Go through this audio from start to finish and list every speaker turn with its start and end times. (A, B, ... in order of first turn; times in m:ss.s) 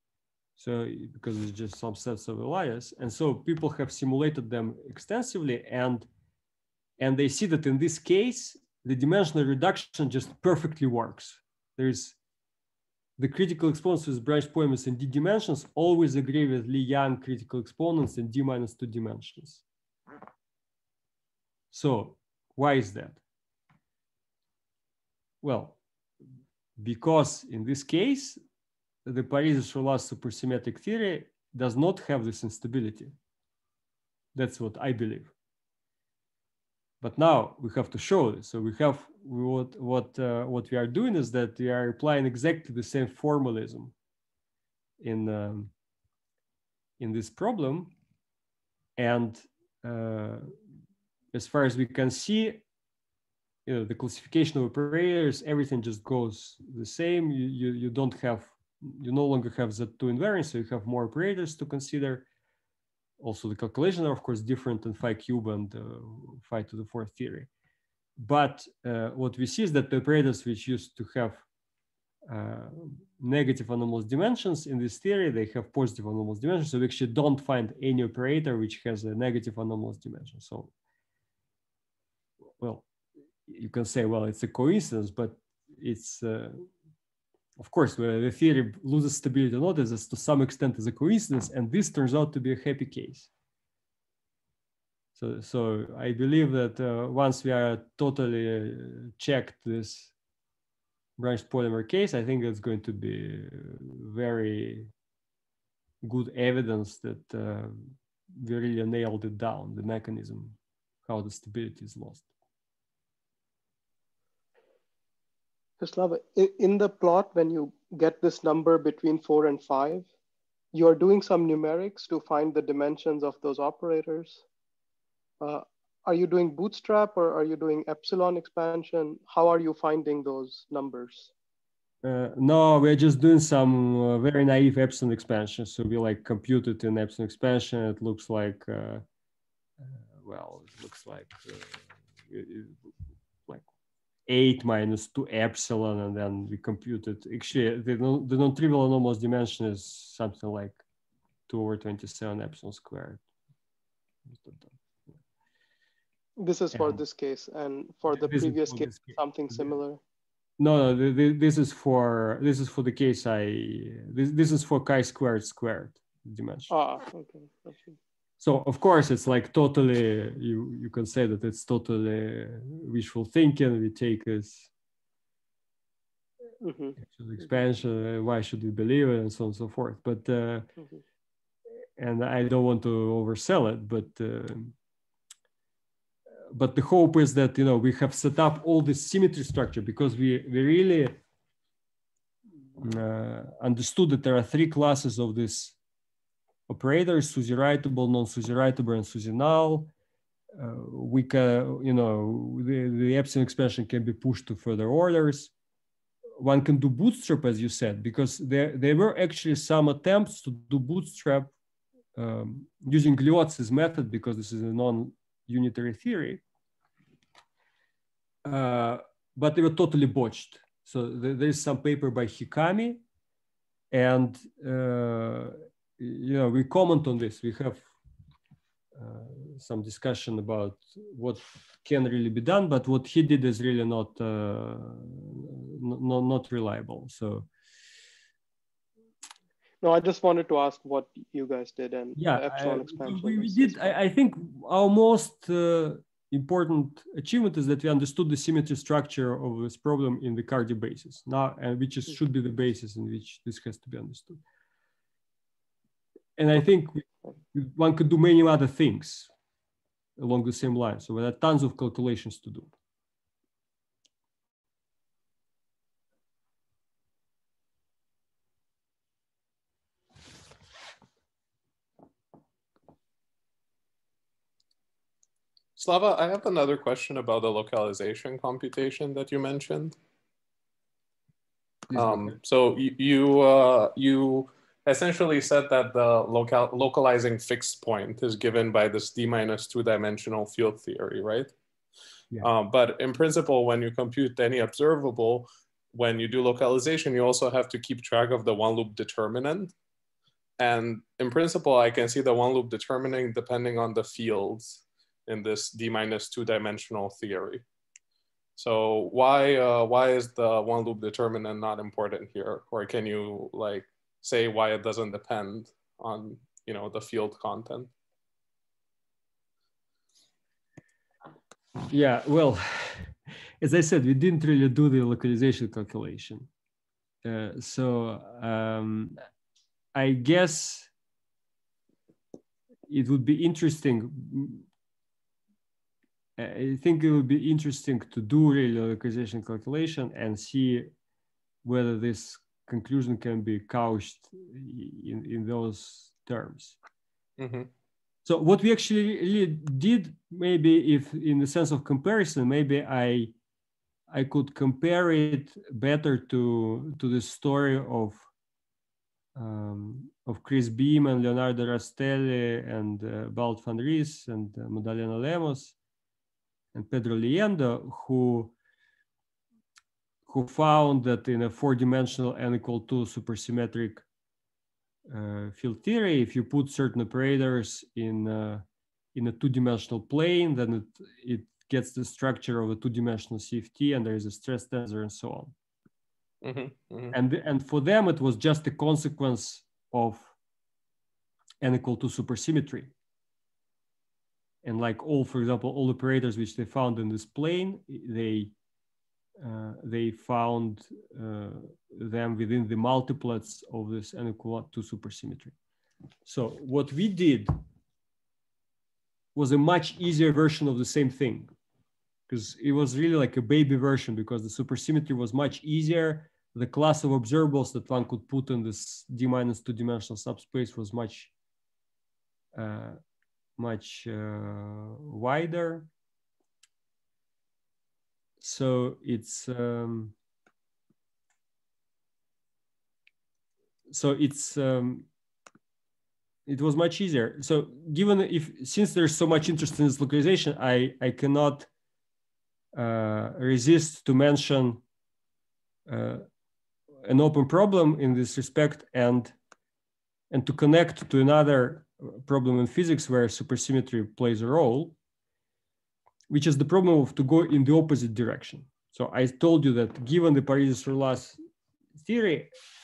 0:00.6-0:06.1 A
0:07.0-0:12.2 A
0:13.2-0:19.6 A
0:21.7-0:23.2 A
0:25.4-0:25.8 A
0:26.8-0:28.4 A
0:29.1-0:33.1 A
0:34.4-0:35.3 A
0:37.0-0:43.9 A
0:45.0-0:45.7 A
0:47.0-0:47.9 A
0:49.0-0:50.5 A
0:51.3-0:52.6 A
0:53.7-1:02.3 A
1:03.2-1:07.5 A
1:08.2-1:11.4 A
1:12.3-1:20.7 A
1:22.6-1:22.9 A
1:23.5-1:26.7 A
1:27.6-1:33.3 A
1:35.2-1:40.1 A
1:41.2-1:44.9 A
1:46.0-1:52.3 A
1:55.8-2:00.1 B
2:00.7-2:04.4 B
2:05.4-2:11.3 B
2:12.0-2:19.0 A
2:19.8-2:22.9 A
2:24.3-2:30.8 A
2:31.5-2:33.2 A
2:34.3-2:34.8 A
2:36.4-2:40.0 B
2:36.7-2:37.0 A
2:38.1-2:39.7 A
2:40.6-2:46.7 A
2:46.7-2:48.0 B
2:48.4-2:54.7 A
2:56.6-2:57.0 B
2:57.0-3:00.7 A
3:02.0-3:04.7 A
3:06.5-3:11.2 A
3:12.8-3:15.8 A
3:16.7-3:19.9 A
3:20.6-3:25.5 A
3:26.4-3:31.5 A
3:32.2-3:36.4 A
3:38.4-3:43.0 A
3:43.9-3:47.9 A
3:49.0-3:57.5 A
3:59.8-4:03.9 B
4:02.2-4:14.4 A
4:16.4-4:19.3 A
4:20.2-4:22.7 A
4:35.8-4:39.9 C
4:41.9-4:42.4 A
4:41.9-4:51.5 C
4:52.4-4:59.7 C
5:00.6-5:07.6 C
5:08.6-5:17.9 C
5:21.9-5:26.5 A
5:27.2-5:29.2 A
5:30.0-5:30.9 A
5:32.9-5:34.7 A
5:36.4-5:40.9 A
5:41.6-5:46.8 A
5:47.4-5:47.7 C
5:48.3-5:53.3 A
5:54.1-5:58.2 A
5:59.4-6:05.8 A
6:06.7-6:08.5 A
6:10.3-6:14.0 A
6:15.1-6:25.5 A
6:26.4-6:27.1 C
6:27.1-6:30.4 A
6:31.6-6:32.9 A
6:34.6-6:38.5 A
6:39.4-6:45.5 A
6:46.2-6:47.5 A
6:49.4-6:51.5 A
6:52.3-7:01.3 A
7:02.6-7:03.0 A
7:03.6-7:05.9 A
7:08.4-7:10.2 A
7:13.9-7:15.1 A
7:16.5-7:21.7 A
7:22.8-7:24.8 A
7:25.9-7:26.2 A
7:27.0-7:29.4 A
7:30.3-7:35.0 A
7:36.3-7:41.4 A
7:42.0-7:42.5 A